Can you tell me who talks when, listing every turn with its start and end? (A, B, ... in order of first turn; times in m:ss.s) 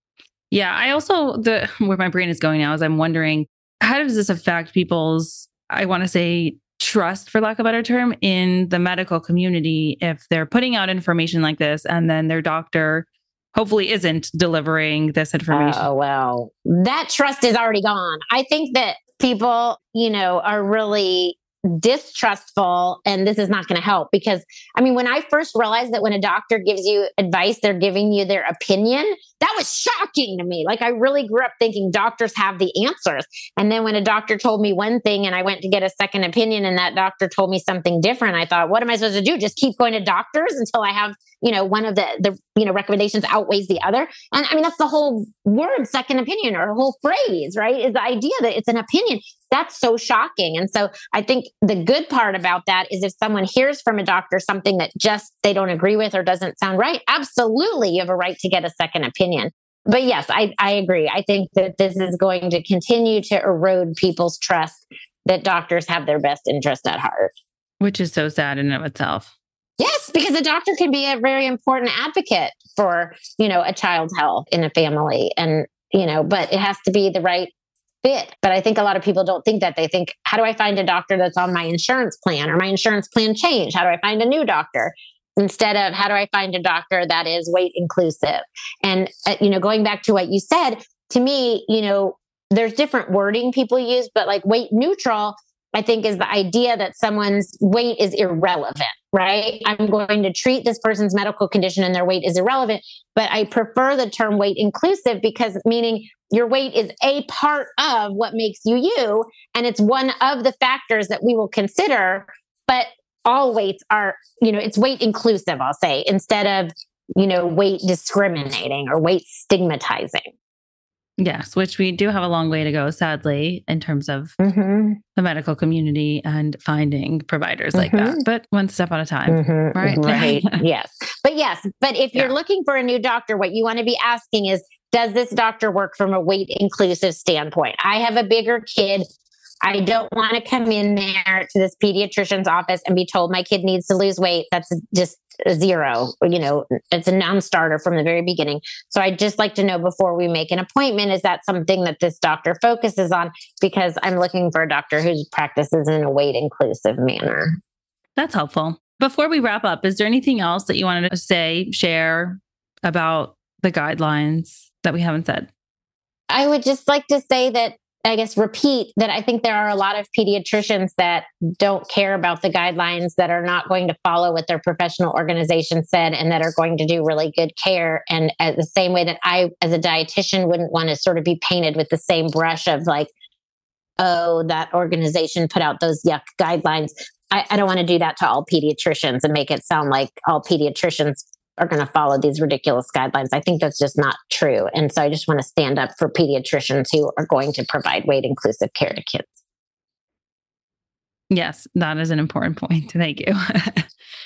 0:00.5-0:15.8 A
0:15.5-1:07.3 B
1:07.8-1:09.3 A
1:09.8-1:17.5 B
1:18.0-2:00.3 B
2:01.2-2:04.4 A
2:04.4-2:05.0 B
2:05.2-2:10.6 A
2:07.7-2:08.2 B
2:09.3-2:19.0 B
2:19.6-2:37.6 B
2:38.2-2:45.5 A
2:46.3-3:03.1 B
3:04.0-3:19.4 B
3:21.3-3:23.9 A